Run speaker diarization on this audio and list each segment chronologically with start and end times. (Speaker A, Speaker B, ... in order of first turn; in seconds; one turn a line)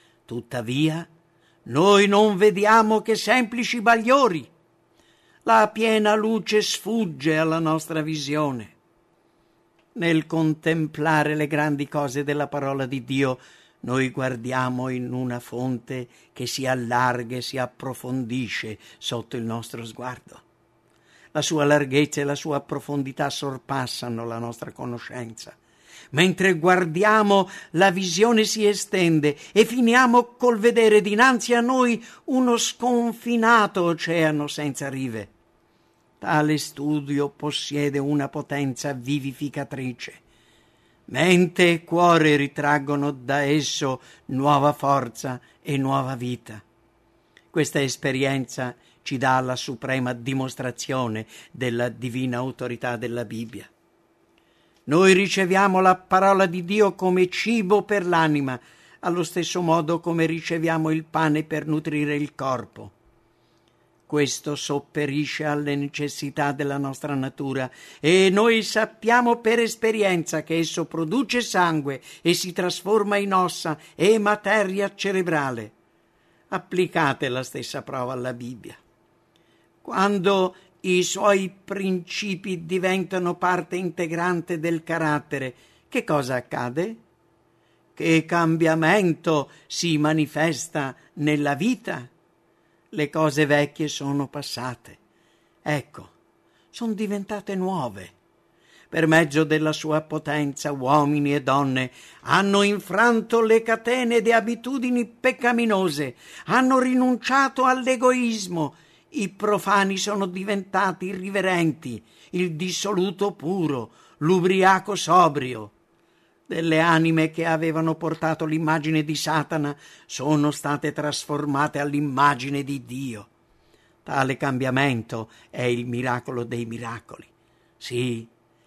Speaker A: 0.3-1.1
Speaker A: 1.7-4.5
Speaker A: 5.4-8.8
Speaker A: 9.9-20.4
Speaker A: 21.3-25.6
Speaker A: 26.1-35.3
Speaker A: 36.2-40.2
Speaker A: 41.1-46.6
Speaker A: 47.5-53.7
Speaker A: 54.9-62.9
Speaker A: 64.1-75.7
Speaker A: 76.5-78.8
Speaker A: 79.8-87.0
Speaker A: 88.0-92.1
Speaker A: 92.9-95.0
Speaker A: 95.6-96.1
Speaker A: 96.7-98.1
Speaker A: 98.9-115.7
Speaker A: 116.5-123.3
Speaker A: 124.0-128.3